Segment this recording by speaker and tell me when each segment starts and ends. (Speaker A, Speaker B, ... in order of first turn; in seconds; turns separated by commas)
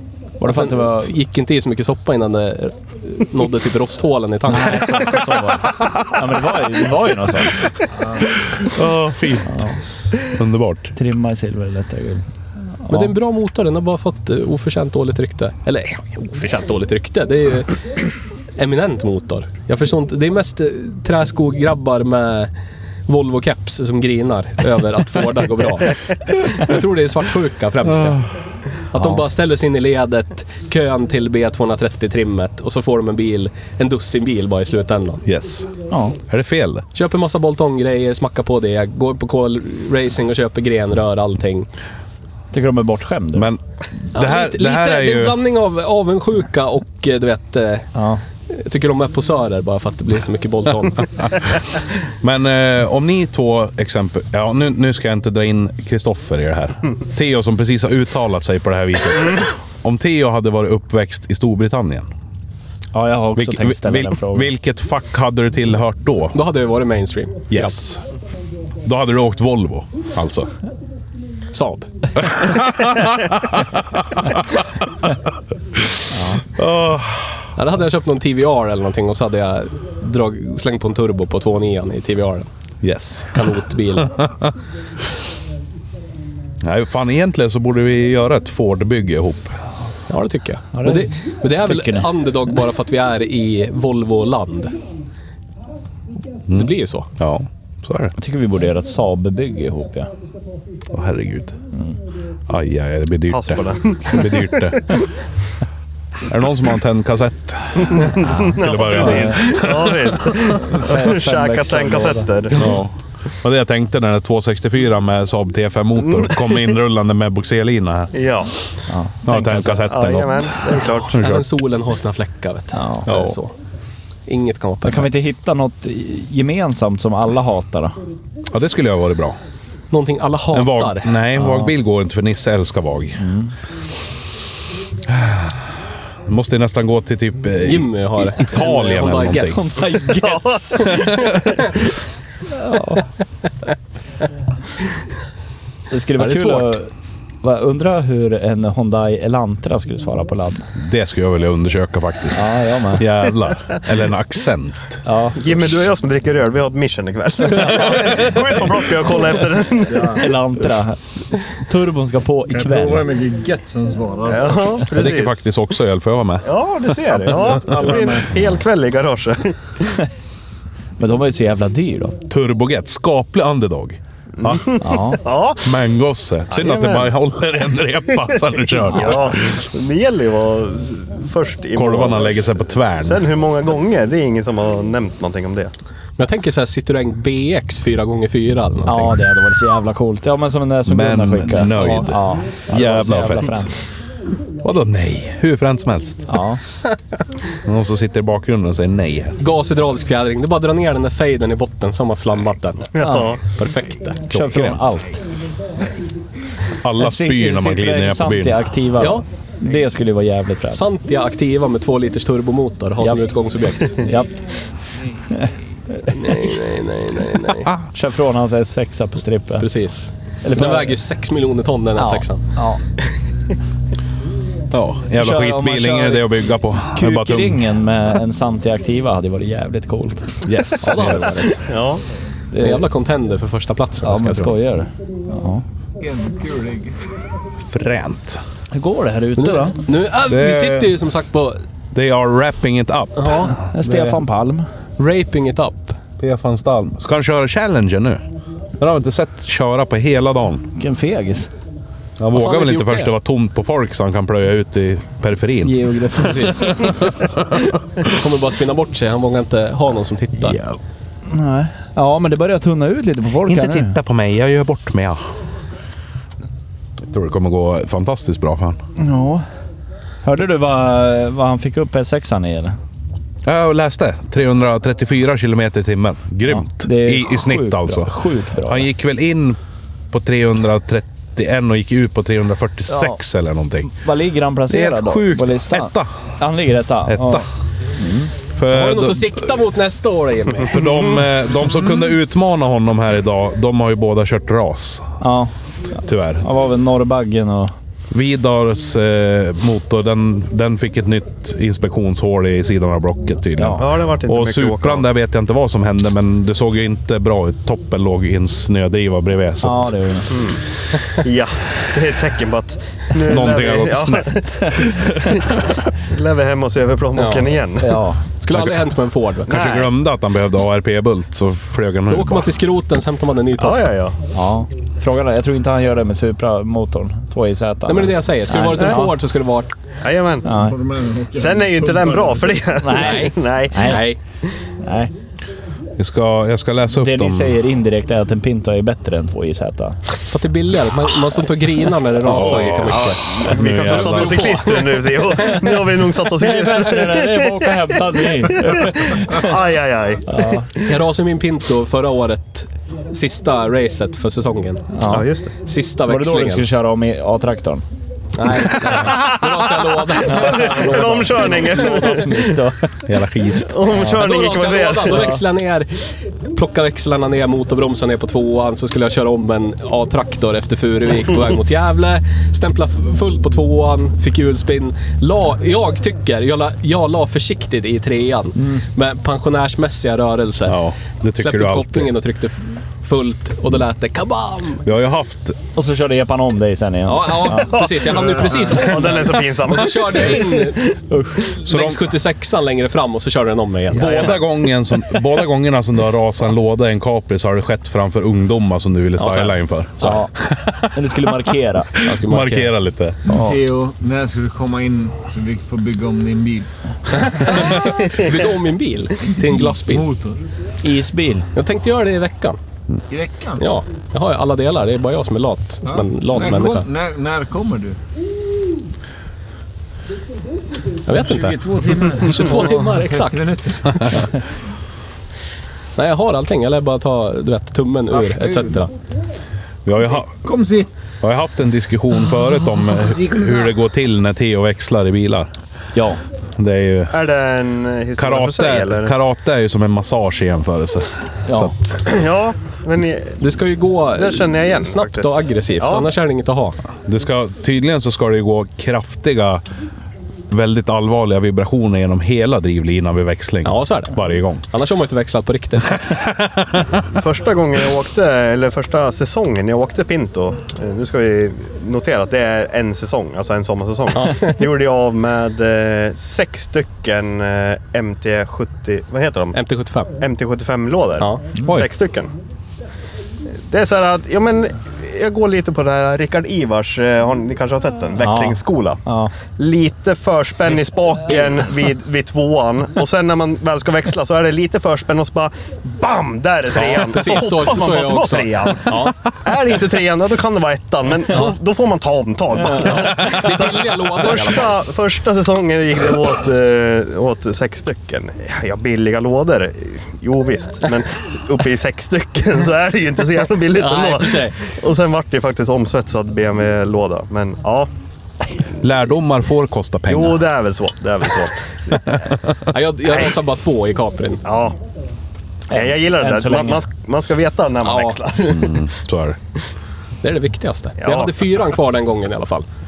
Speaker A: 0.4-1.1, Speaker B: 0.4-5.2, Speaker A: 4.5-7.6, Speaker C: 8.6-9.7, Speaker A: 9.5-9.8, Speaker C: 10.4-10.9, Speaker A: 10.9-12.2, Speaker A: 12.8-13.1, Speaker B: 12.9-17.8, Speaker B: 18.6-22.5, Speaker B: 23.1-28.2, Speaker C: 27.9-28.2, Speaker B: 28.9-35.2, Speaker C: 35.2-35.7, Speaker A: 35.9-36.2, Speaker C: 36.3-36.8, Speaker B: 36.9-41.7, Speaker A: 42.5-43.5, Speaker C: 43.3-43.6, Speaker C: 44.1-45.4, Speaker B: 44.1-47.9, Speaker A: 47.9-48.2, Speaker B: 48.5-51.3, Speaker C: 52.2-62.1, Speaker A: 62.9-64.5, Speaker C: 63.4-66.4, Speaker B: 66.3-67.8, Speaker C: 67.5-68.0, Speaker C: 68.8-70.5, Speaker B: 71.5-71.9, Speaker C: 72.2-75.1, Speaker A: 76.1-76.4, Speaker C: 76.5-77.5, Speaker B: 77.6-82.5, Speaker C: 82.8-83.5, Speaker B: 83.3-84.2, Speaker C: 84.0-84.5, Speaker C: 86.6-89.6, Speaker B: 90.1-94.7, Speaker A: 90.7-92.1, Speaker C: 96.5-98.1, Speaker B: 96.5-97.1, Speaker A: 98.2-100.1, Speaker C: 100.9-101.5, Speaker C: 102.5-104.9, Speaker D: 103.3-104.7, Speaker C: 106.3-110.2, Speaker D: 107.9-112.6, Speaker A: 108.9-109.5, Speaker A: 110.7-112.7, Speaker C: 112.5-118.1, Speaker D: 116.0-116.5, Speaker D: 118.1-118.5, Speaker A: 118.9-120.0, Speaker C: 119.2-121.5, Speaker D: 119.8-121.2, Speaker B: 121.2-123.5, Speaker A: 122.7-123.0, Speaker C: 123.0-123.3, Speaker B: 124.3-125.1, Speaker A: 124.8-128.0, Speaker C: 128.5-129.4, Speaker B: 129.9-131.2, Speaker C: 130.5-133.2, Speaker A: 131.3-131.7, Speaker A: 133.2-133.5, Speaker C: 135.1-135.6, Speaker C: 136.3-139.7, Speaker B: 137.6-140.0, Speaker A: 139.5-141.2, Speaker D: 140.2-141.3, Speaker B: 140.8-141.5, Speaker A: 142.5-143.0, Speaker A: 145.9-146.9, Speaker B: 146.2-146.8, Speaker A: 147.4-150.7, Speaker C: 150.8-155.0, Speaker A: 152.3-153.0, Speaker A: 155.0-155.4, Speaker D: 155.3-160.3, Speaker A: 160.0-163.2, Speaker E: 162.5-164.2, Speaker D: 164.2-165.4, Speaker C: 164.9-166.5, Speaker D: 166.4-169.9, Speaker E: 167.6-168.2, Speaker A: 171.0-172.2, Speaker C: 172.3-174.6, Speaker D: 174.4-175.8, Speaker A: 174.8-175.2, Speaker C: 175.6-179.6, Speaker D: 176.5-177.1, Speaker D: 178.8-185.7, Speaker C: 181.7-183.2, Speaker B: 186.2-189.1, Speaker A: 188.8-193.7, Speaker C: 190.8-193.7, Speaker C: 194.6-196.2, Speaker A: 196.3-196.6, Speaker C: 197.7-199.4, Speaker B: 199.4-204.2, Speaker D: 202.9-203.4, Speaker A: 203.0-203.3, Speaker C: 204.3-205.0, Speaker A: 204.3-205.2, Speaker C: 206.8-208.6, Speaker A: 207.0-210.8, Speaker B: 209.0-209.2, Speaker B: 210.7-214.1, Speaker A: 213.8-214.3, Speaker A: 216.0-216.5, Speaker B: 216.1-217.7, Speaker A: 217.9-219.7, Speaker B: 219.6-222.4, Speaker A: 220.4-221.0, Speaker A: 221.9-222.8, Speaker C: 224.7-227.6, Speaker A: 225.2-231.6, Speaker C: 230.4-231.4, Speaker B: 230.8-231.6, Speaker D: 231.7-232.0, Speaker A: 232.5-232.8, Speaker B: 232.6-234.5, Speaker A: 234.0-235.6, Speaker E: 236.0-236.7, Speaker F: 236.1-236.7, Speaker C: 237.7-238.4, Speaker A: 238.7-239.8, Speaker B: 239.4-241.6, Speaker C: 240.3-240.9, Speaker C: 241.9-244.2, Speaker B: 243.2-243.5, Speaker A: 243.7-244.6, Speaker B: 245.0-246.0, Speaker C: 246.2-248.2, Speaker C: 248.8-250.7, Speaker A: 250.8-251.5, Speaker C: 252.2-255.8, Speaker B: 252.3-253.1, Speaker A: 255.6-256.9, Speaker B: 256.3-256.8, Speaker B: 258.0-260.6, Speaker A: 261.3-264.0, Speaker C: 263.4-265.2, Speaker C: 267.1-268.8, Speaker A: 269.0-269.4, Speaker A: 270.2-272.8, Speaker C: 273.4-278.1, Speaker A: 276.5-278.9, Speaker C: 278.6-279.6, Speaker C: 280.1-283.9, Speaker A: 282.9-283.2, Speaker A: 283.8-287.4, Speaker C: 284.7-286.1, Speaker C: 287.1-287.4, Speaker A: 287.9-288.3, Speaker C: 288.6-289.5, Speaker B: 288.7-290.9, Speaker C: 290.7-295.1, Speaker A: 295.2-295.5, Speaker C: 296.0-296.4, Speaker A: 296.4-297.7, Speaker C: 298.1-309.9, Speaker A: 303.6-303.8, Speaker D: 303.8-305.1, Speaker A: 309.6-310.4, Speaker D: 310.3-310.6, Speaker D: 311.2-314.9, Speaker C: 313.2-315.3, Speaker D: 316.1-318.0, Speaker B: 317.1-317.5, Speaker A: 317.8-318.2, Speaker B: 318.4-319.5, Speaker C: 318.5-318.9, Speaker D: 319.5-319.9, Speaker C: 319.5-322.5, Speaker B: 322.1-323.8, Speaker D: 323.6-324.1, Speaker A: 324.3-329.1, Speaker B: 327.9-329.7, Speaker D: 330.0-330.5, Speaker A: 330.4-330.8, Speaker E: 330.9-331.2, Speaker F: 330.9-332.5, Speaker D: 331.3-333.9, Speaker A: 332.7-334.1, Speaker B: 332.9-334.2, Speaker A: 334.8-335.1, Speaker C: 336.0-337.6, Speaker A: 336.9-340.0, Speaker B: 340.3-343.3, Speaker C: 342.2-344.6, Speaker D: 342.3-347.6, Speaker B: 343.8-345.6, Speaker A: 346.4-349.6, Speaker D: 348.5-350.9, Speaker A: 350.3-350.7, Speaker B: 350.8-356.6, Speaker A: 355.0-355.3, Speaker D: 355.1-355.5, Speaker A: 356.1-357.8, Speaker B: 358.3-362.2, Speaker A: 360.2-362.8, Speaker D: 360.4-362.6, Speaker C: 363.1-363.8, Speaker D: 363.6-365.4, Speaker A: 363.9-364.2, Speaker B: 364.2-365.9, Speaker A: 365.1-365.4, Speaker B: 366.5-380.8, Speaker C: 380.6-382.1, Speaker B: 381.4-384.8, Speaker C: 384.8-385.6, Speaker A: 385.7-387.9, Speaker B: 387.1-390.9, Speaker D: 387.5-390.9, Speaker A: 391.1-391.5, Speaker B: 391.6-394.4, Speaker C: 391.6-392.1, Speaker C: 393.9-400.9, Speaker D: 394.0-394.4, Speaker B: 399.2-400.2, Speaker A: 400.0-400.3, Speaker A: 400.9-401.9, Speaker B: 402.0-402.7, Speaker C: 402.1-403.2, Speaker A: 403.3-403.6, Speaker F: 403.3-406.6, Speaker B: 407.2-410.1, Speaker F: 409.9-410.3, Speaker A: 410.8-411.4, Speaker B: 411.5-412.6, Speaker F: 413.1-413.6, Speaker B: 413.6-416.9, Speaker F: 415.9-417.9, Speaker B: 421.1-421.6, Speaker F: 421.3-424.2, Speaker B: 422.2-424.2, Speaker B: 425.9-428.9, Speaker F: 428.1-428.8, Speaker C: 429.8-430.4, Speaker F: 430.1-430.9, Speaker C: 431.2-435.5, Speaker F: 433.4-433.7, Speaker A: 435.9-436.2, Speaker C: 436.6-437.1, Speaker D: 437.1-439.1, Speaker C: 438.2-442.0, Speaker A: 441.5-441.7, Speaker D: 442.0-443.4, Speaker B: 443.4-446.8, Speaker D: 444.1-446.1, Speaker C: 447.1-449.6, Speaker C: 450.5-454.6, Speaker B: 453.6-456.1, Speaker C: 456.3-457.0, Speaker D: 457.1-469.6, Speaker B: 464.1-464.6, Speaker B: 469.5-470.1, Speaker D: 470.2-472.3, Speaker D: 473.7-507.9, Speaker A: 478.2-479.3, Speaker B: 481.2-481.5, Speaker B: 486.7-489.2, Speaker B: 491.3-491.6, Speaker B: 492.6-494.8, Speaker B: 503.7-504.6, Speaker C: 508.8-510.4, Speaker D: 510.1-512.1, Speaker B: 512.7-514.4, Speaker D: 514.4-514.8, Speaker A: 515.7-516.9, Speaker D: 515.7-518.9, Speaker B: 517.8-518.2, Speaker C: 518.4-519.4, Speaker B: 520.2-522.6, Speaker D: 521.0-521.5